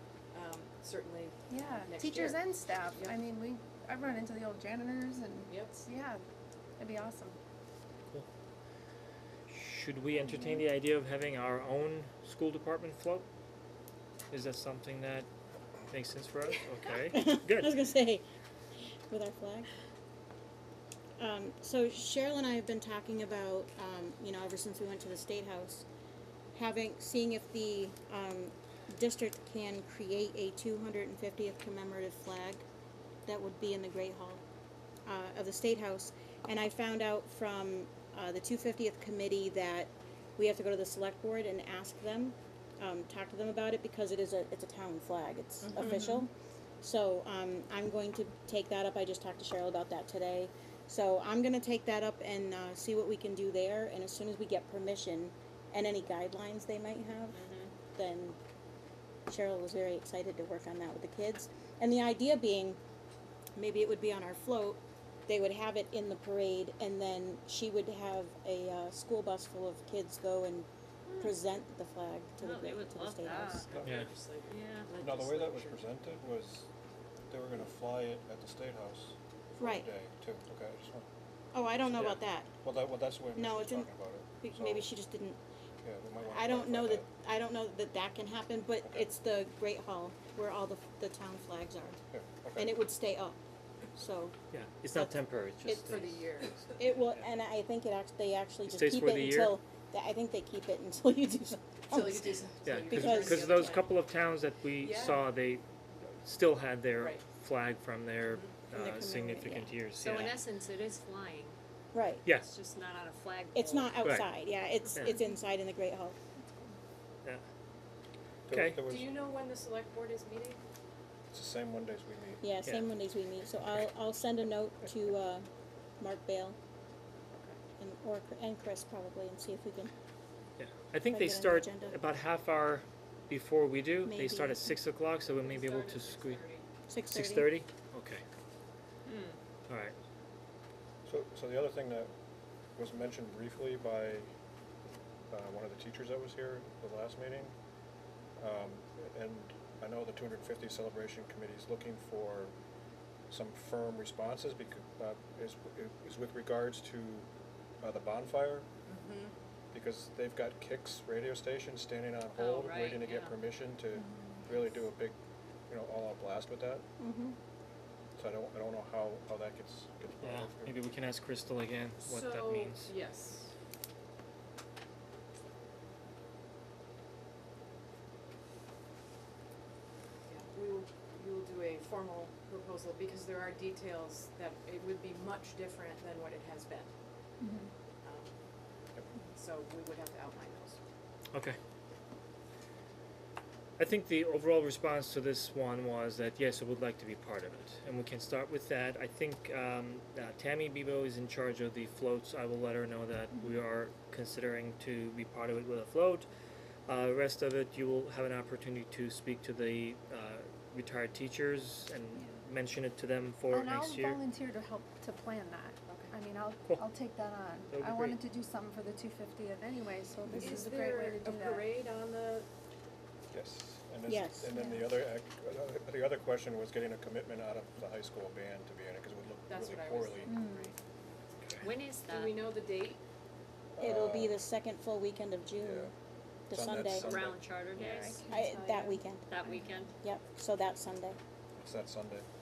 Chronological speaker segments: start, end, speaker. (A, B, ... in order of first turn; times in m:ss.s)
0:00.3-0:03.2 A
0:01.5-0:06.2 B
0:05.5-0:05.9 A
0:06.8-0:07.4 B
0:09.5-0:13.2 C
0:14.3-0:15.3 C
0:15.9-0:17.7 C
0:17.1-0:18.2 D
0:19.1-0:19.7 D
0:21.2-0:25.8 D
0:26.5-0:32.6 D
0:33.2-0:34.4 D
0:35.0-0:46.3 D
0:45.8-0:46.1 A
0:46.8-0:58.4 D
0:57.4-0:57.7 E
0:59.3-1:02.8 D
1:03.6-1:10.7 D
1:11.1-1:11.4 E
1:11.2-1:13.7 D
1:12.4-1:13.6 E
1:13.3-1:15.8 A
1:13.7-1:14.1 F
1:13.8-1:14.1 C
1:14.5-1:14.9 E
1:15.0-1:16.7 F
1:17.3-1:21.0 F
1:19.6-1:19.9 D
1:21.5-1:22.6 D
1:22.6-1:24.9 F
1:23.3-1:23.9 D
1:24.4-1:25.4 D
1:25.8-1:27.0 F
1:26.3-1:32.0 D
1:32.1-1:32.7 F
1:32.6-1:33.4 D
1:33.9-1:34.3 D
1:34.5-1:36.2 C
1:35.7-1:36.7 A
1:36.8-1:42.3 D
1:38.7-1:39.6 C
1:41.9-1:43.9 A
1:42.6-1:45.6 C
1:42.9-1:43.8 D
1:44.8-1:45.2 A
1:46.2-1:50.4 C
1:47.0-1:47.2 A
1:48.7-1:49.7 D
1:50.0-1:51.6 E
1:51.9-1:52.2 D
1:52.2-1:52.5 C
1:52.4-1:54.0 E
1:53.5-1:56.2 D
1:54.0-1:54.3 C
1:58.5-1:59.1 F
1:58.5-1:58.8 C
1:58.8-2:00.6 A
2:01.3-2:02.5 F
2:02.4-2:05.4 D
2:06.0-2:06.6 D
2:07.8-2:09.9 D
2:10.6-2:16.4 C
2:11.1-2:12.0 D
2:14.0-2:14.7 D
2:15.4-2:16.6 A
2:16.9-2:17.5 D
2:17.1-2:18.2 C
2:19.0-2:19.4 A
2:19.7-2:19.9 C
2:21.0-2:22.1 F
2:22.8-2:24.3 F
2:25.3-2:27.5 F
2:28.4-2:32.5 F
2:33.3-2:37.3 F
2:37.8-2:38.6 F
2:38.8-2:39.3 A
2:39.7-2:45.1 F
2:42.3-2:43.4 E
2:45.7-2:46.8 F
2:47.0-2:47.4 D
2:48.2-2:50.8 F
2:50.2-2:52.9 C
2:52.0-2:53.5 A
3:00.3-3:06.9 A
3:07.4-3:07.7 B
3:08.0-3:08.3 A
3:09.3-3:10.8 A
3:11.3-3:11.6 C
3:13.8-3:26.3 C
3:26.9-3:34.2 C
3:33.5-3:41.6 B
3:37.7-3:38.2 C
3:40.4-3:42.5 A
3:43.3-3:50.4 F
3:44.0-3:44.5 D
3:44.5-3:44.8 B
3:49.5-3:50.8 A
3:50.3-3:50.7 B
3:51.6-3:52.4 E
3:52.0-3:53.0 A
3:53.8-3:54.4 F
3:53.8-3:55.9 D
3:55.6-3:55.9 F
3:56.5-3:57.1 D
3:56.5-3:57.5 F
3:57.0-3:58.2 E
3:57.8-3:59.7 B
3:58.3-3:59.3 D
3:59.3-3:59.9 E
4:00.0-4:01.2 D
4:01.6-4:02.2 F